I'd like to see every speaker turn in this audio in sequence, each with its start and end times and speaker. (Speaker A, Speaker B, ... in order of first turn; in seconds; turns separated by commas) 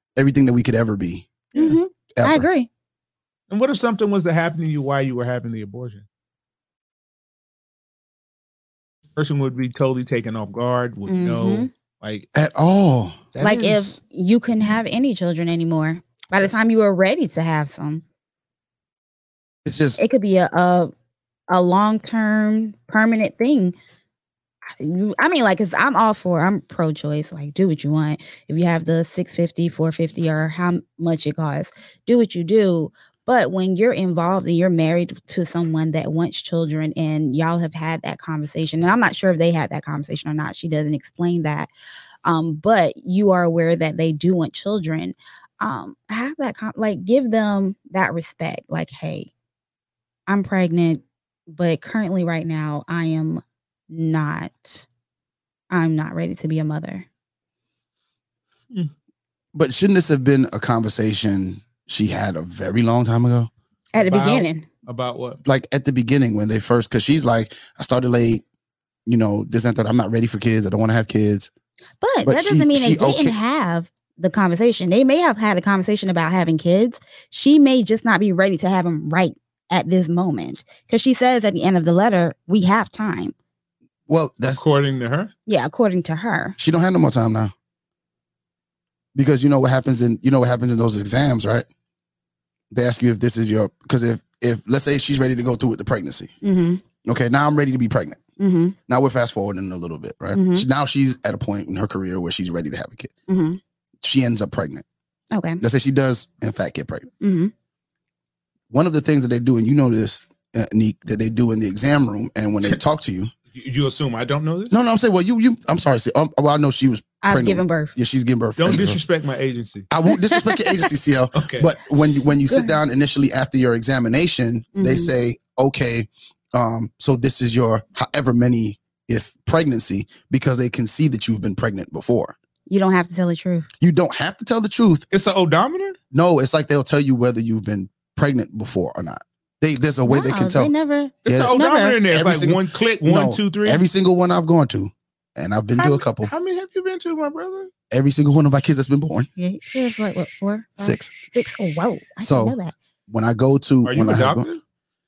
Speaker A: 0.2-1.5, Speaker B: 1.6-2.7, Speaker A: 2.2-2.5, Speaker C: 3.5-6.0, Speaker C: 9.2-12.3, Speaker B: 11.1-11.7, Speaker A: 12.3-13.2, Speaker C: 13.3-14.0, Speaker B: 13.4-18.0, Speaker A: 19.6-20.0, Speaker B: 20.0-20.9, Speaker B: 21.5-23.8, Speaker B: 24.8-41.7, Speaker B: 42.2-49.3, Speaker B: 50.3-54.9, Speaker B: 55.7-57.1, Speaker A: 59.5-63.5, Speaker B: 63.9-64.7, Speaker C: 64.0-65.4, Speaker A: 65.5-68.4, Speaker A: 69.1-71.5, Speaker B: 72.0-83.3, Speaker A: 72.2-73.4, Speaker A: 84.1-84.6, Speaker C: 84.5-85.3, Speaker B: 85.5-86.6, Speaker A: 86.6-87.5, Speaker A: 89.2-91.7, Speaker A: 92.7-96.3, Speaker B: 96.4-96.8, Speaker A: 97.0-98.2, Speaker B: 98.4-98.8, Speaker A: 98.9-103.1, Speaker B: 100.3-100.7, Speaker B: 103.3-103.6, Speaker A: 104.0-104.8, Speaker B: 105.3-105.6, Speaker A: 105.6-107.1, Speaker B: 107.2-107.5, Speaker A: 108.7-113.3, Speaker C: 113.5-114.7, Speaker A: 114.7-119.0, Speaker B: 117.2-117.9, Speaker C: 118.6-119.9, Speaker A: 119.9-132.3, Speaker B: 120.3-120.8, Speaker C: 121.3-121.7, Speaker B: 122.5-122.7, Speaker B: 124.8-125.1, Speaker B: 132.7-133.7, Speaker A: 133.8-135.1, Speaker C: 135.1-136.0, Speaker A: 136.1-140.7, Speaker B: 140.1-142.0, Speaker C: 141.2-143.8, Speaker A: 141.3-146.3, Speaker C: 145.8-147.7, Speaker A: 147.9-149.3, Speaker B: 149.4-152.8, Speaker A: 150.8-151.1, Speaker A: 152.2-152.6, Speaker A: 153.1-154.5, Speaker C: 153.8-154.6